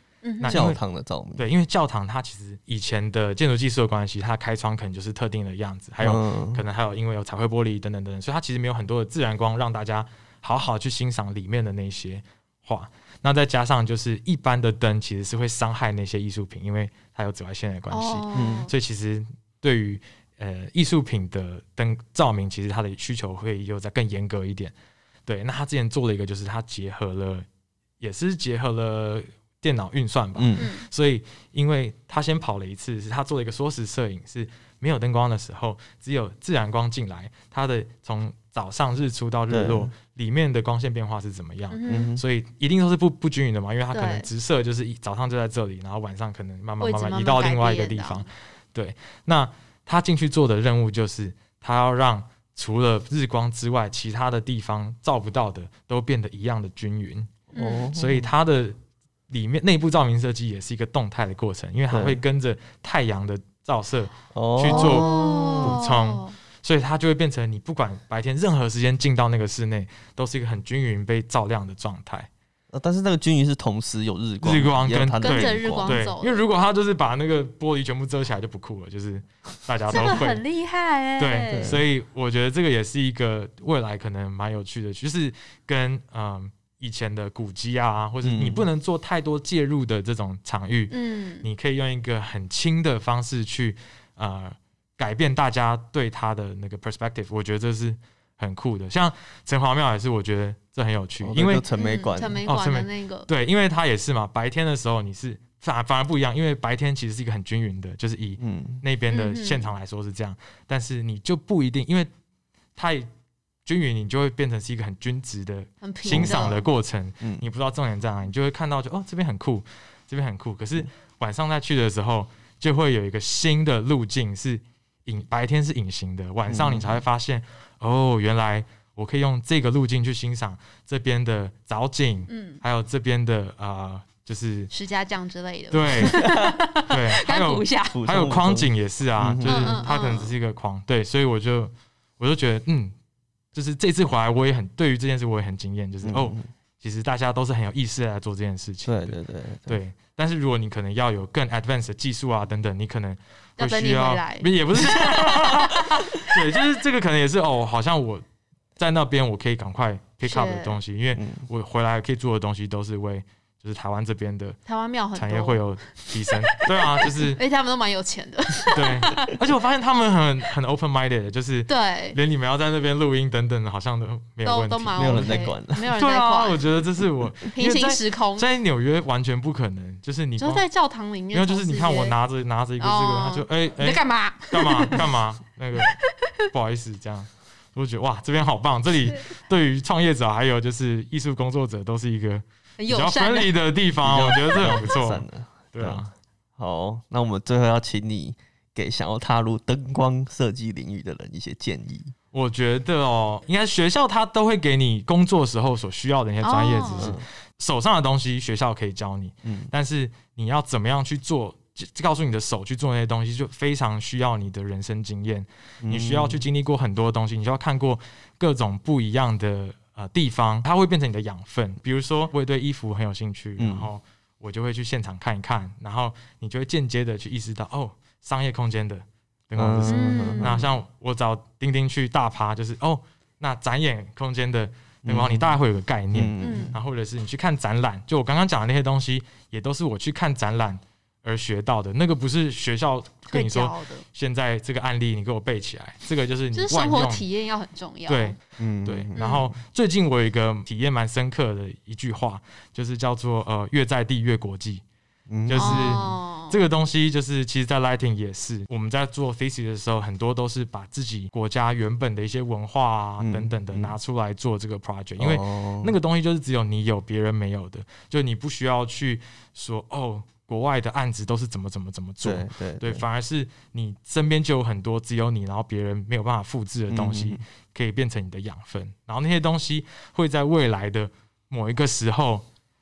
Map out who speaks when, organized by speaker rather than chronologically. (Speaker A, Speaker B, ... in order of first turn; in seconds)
Speaker A: 0.2-0.6, 17.9-18.7, 30.6-30.9, 41.7-42.1, 43.9-44.3, 46.8-48.2, 57.5-57.9, 64.7-66.3, 75.2-76.4, 79.9-81.8, 90.9-91.5, 101.8-103.3, 109.1-109.7, 115.8-116.6, 132.3-132.6, 134.7-138.0, 139.4-140.3, 153.6-154.5, 160.2-160.8, 164.7-165.6, 166.5-169.3, 171.7-172.2, 174.4-176.6, 177.5-178.5, 180.4-182.1, 182.8-185.1, 185.8-186.4, 192.8-193.5, 206.4-207.1, 229.9-230.6, 236.4-236.7, 243.3-244.0, 246.5-248.4, 249.2-249.4, 255.5-256.6
Speaker B: 0.4-0.8, 1.4-24.7, 25.2-27.4, 28.0-57.3, 57.9-58.8, 59.3-72.3, 74.4-80.4, 81.2-101.7, 102.5-112.1, 112.8-113.1, 113.6-134.7, 135.7-136.3, 136.8-142.9, 143.5-158.2, 158.8-164.6, 165.1-167.4, 168.7-180.6, 181.3-196.1, 202.3-247.2, 248.1-254.8, 255.4-282.4
Speaker C: 0.5-1.4, 6.0-6.6, 18.3-18.7, 30.3-30.7, 39.5-39.9, 41.9-42.2, 57.5-58.3, 61.9-62.2, 64.3-65.8, 72.7-76.0, 79.9-80.2, 81.5-81.8, 88.2-88.7, 101.2-102.4, 108.4-108.8, 116.1-116.5, 126.5-127.0, 136.0-136.6, 137.9-139.8, 146.0-146.4, 148.8-149.8, 154.8-155.6, 161.2-161.4, 174.9-175.9, 194.0-196.0, 196.6-202.1, 207.0-207.2, 209.4-209.7, 215.8-216.4, 223.6-223.9, 229.6-230.7, 235.0-235.6, 236.1-236.8, 248.6-249.5, 255.3-256.0, 263.2-263.9, 265.2-265.9, 272.2-273.0, 276.9-277.4